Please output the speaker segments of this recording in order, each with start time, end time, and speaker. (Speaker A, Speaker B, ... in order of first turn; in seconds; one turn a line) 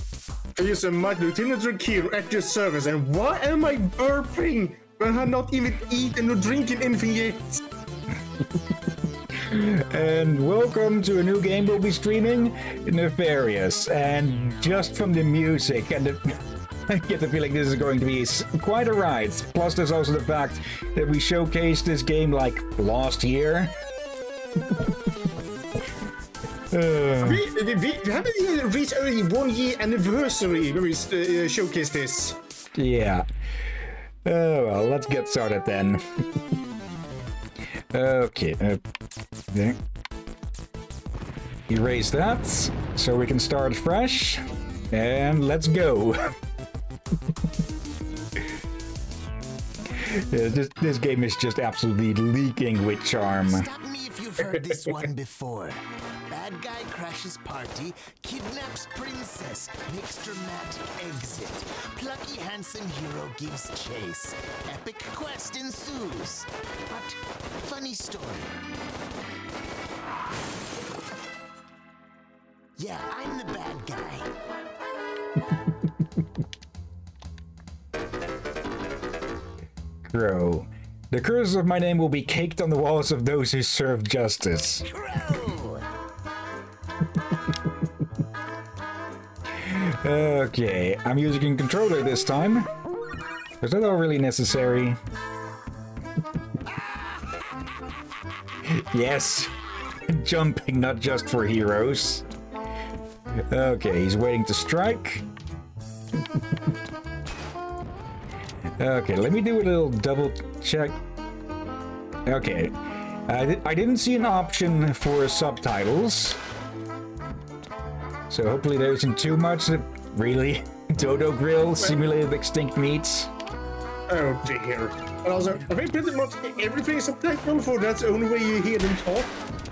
Speaker A: 0.6-7.6
Speaker B: 9.3-23.7
Speaker B: 26.7-27.4
Speaker A: 27.2-32.4
Speaker B: 32.8-33.2
Speaker B: 34.2-36.2
Speaker B: 37.9-38.8
Speaker B: 39.5-39.8
Speaker B: 41.7-46.3
Speaker B: 50.0-53.7
Speaker C: 53.5-68.5
Speaker C: 72.8-74.3
Speaker B: 80.0-84.8
Speaker C: 84.8-85.8
Speaker B: 89.6-92.7
Speaker B: 93.6-95.0
Speaker B: 98.6-99.5
Speaker B: 100.1-102.2
Speaker B: 103.5-105.2
Speaker B: 108.8-111.0
Speaker B: 112.2-112.7
Speaker B: 113.3-116.4
Speaker B: 118.3-123.3
Speaker A: 124.1-129.4